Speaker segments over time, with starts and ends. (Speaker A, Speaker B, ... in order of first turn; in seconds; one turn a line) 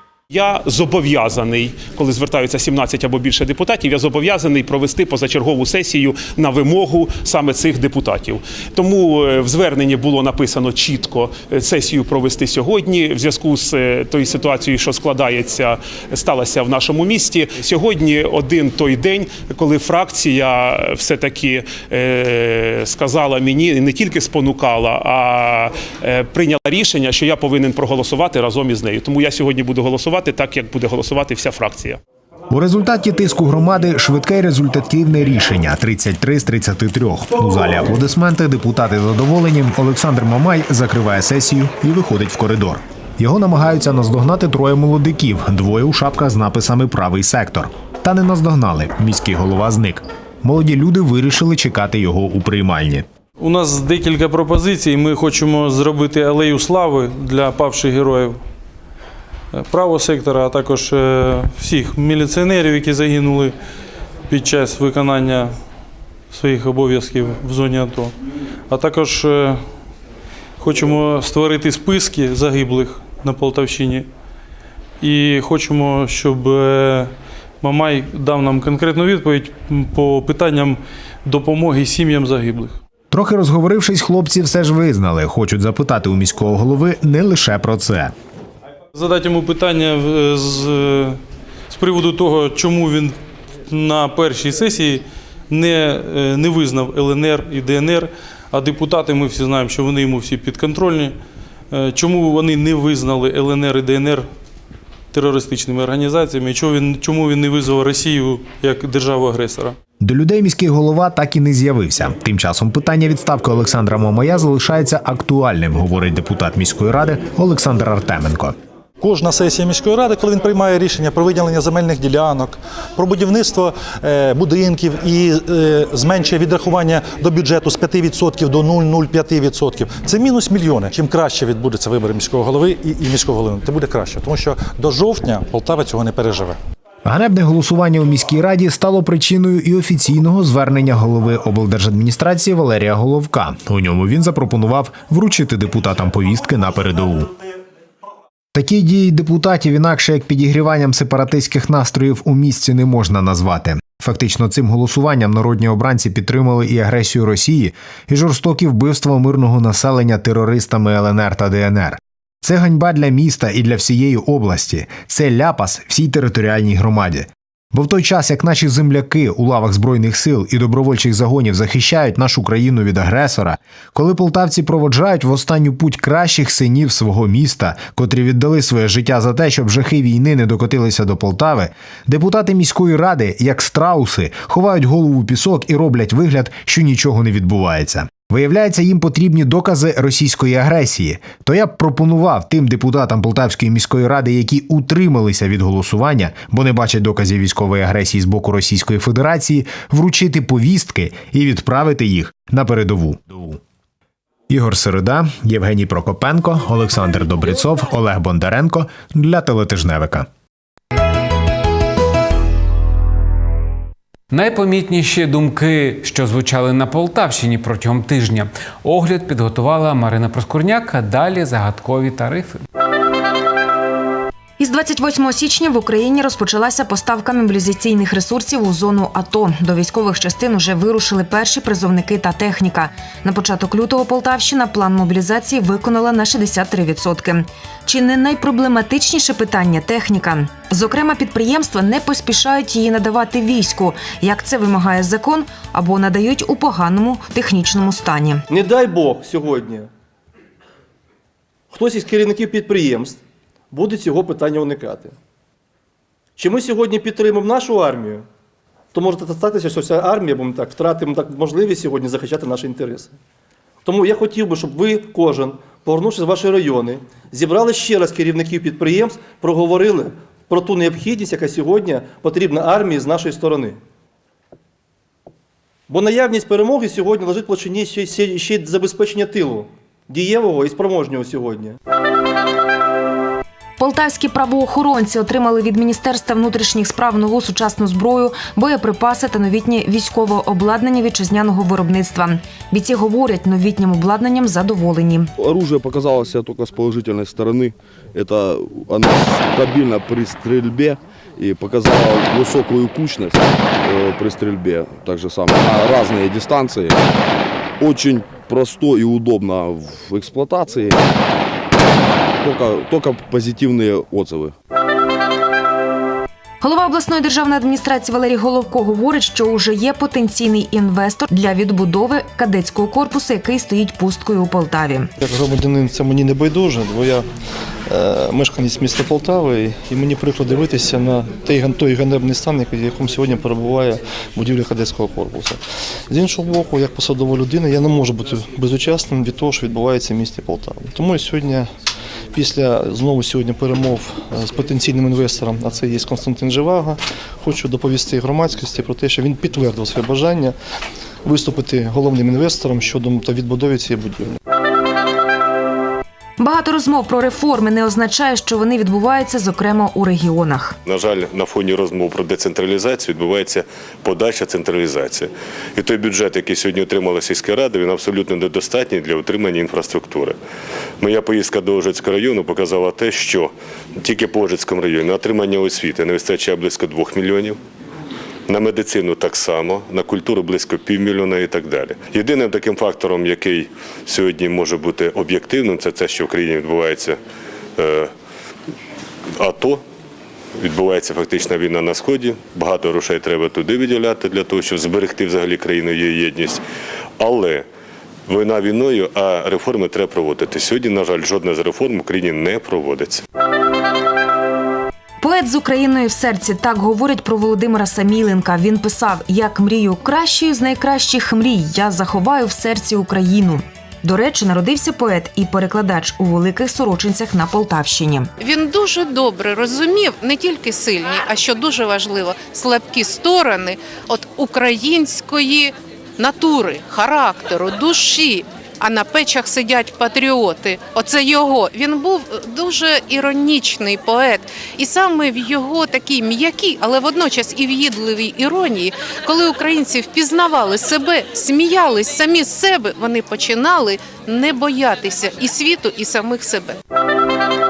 Speaker A: 0.3-32.0
Speaker B: 32.5-53.0
Speaker C: 53.4-58.4
Speaker C: 59.5-63.5
Speaker C: 64.3-65.5
Speaker C: 66.3-68.1
Speaker C: 68.7-69.6
Speaker C: 70.6-74.1
Speaker C: 75.0-82.8
Speaker B: 83.1-88.1
Speaker C: 88.9-91.2
Speaker C: 91.7-101.2
Speaker C: 101.7-104.3
Speaker C: 105.1-109.8
Speaker B: 110.0-118.5
Speaker D: 119.0-136.6
Speaker B: 137.0-147.3
Speaker B: 148.5-203.6
Speaker B: 204.5-210.3
Speaker E: 214.3-222.6
Speaker F: 224.6-248.4
Speaker G: 248.5-249.9
Speaker G: 251.7-253.2
Speaker G: 253.7-255.1
Speaker G: 256.4-258.2
Speaker G: 258.9-263.1
Speaker G: 263.8-273.8
Speaker G: 275.9-281.8
Speaker F: 283.8-295.3
Speaker H: 295.4-307.0
Speaker H: 307.8-311.0
Speaker H: 312.4-314.5
Speaker F: 316.6-325.1
Speaker G: 325.2-327.3
Speaker G: 327.9-341.7
Speaker G: 342.3-350.6
Speaker G: 351.2-354.3
Speaker F: 356.4-360.8
Speaker I: 360.9-370.4
Speaker I: 371.0-377.6
Speaker I: 378.5-387.2
Speaker I: 387.8-388.1
Speaker I: 389.4-389.8
Speaker I: 390.6-396.6
Speaker I: 397.2-397.7
Speaker I: 398.3-403.2
Speaker F: 405.2-418.3
Speaker J: 418.4-446.8